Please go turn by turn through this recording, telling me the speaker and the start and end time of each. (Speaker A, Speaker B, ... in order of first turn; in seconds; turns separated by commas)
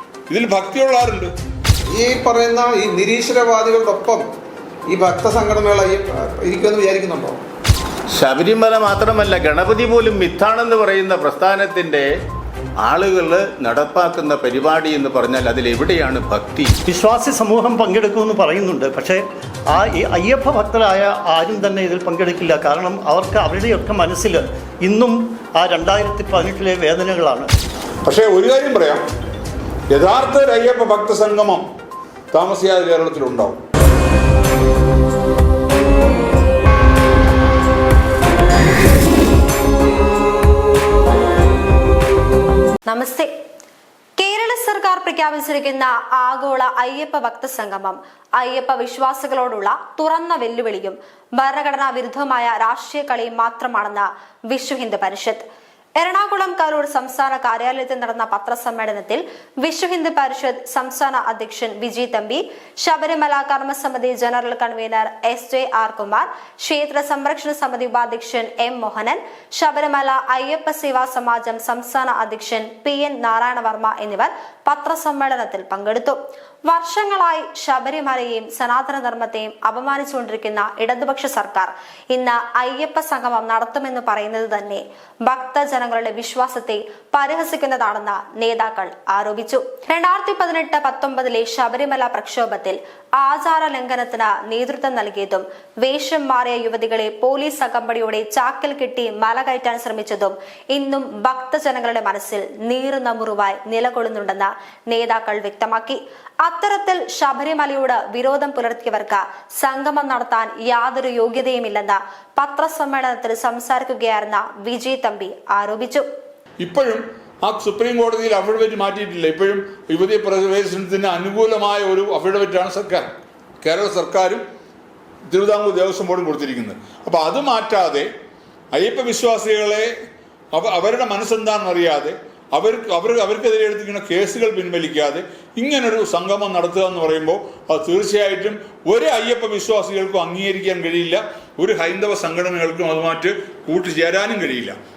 Speaker A: 0.3-1.3, Speaker B: 1.9-4.2, Speaker B: 4.9-7.4, Speaker C: 8.1-12.1, Speaker C: 12.8-16.7, Speaker D: 16.9-27.5, Speaker A: 28.1-29.0, Speaker A: 29.9-31.6, Speaker A: 32.3-33.6, Speaker E: 42.9-43.3, Speaker E: 44.2-55.4, Speaker E: 56.0-116.1, Speaker A: 116.6-123.1, Speaker A: 123.6-124.4, Speaker A: 125.3-128.1, Speaker A: 128.7-129.9, Speaker A: 130.5-144.8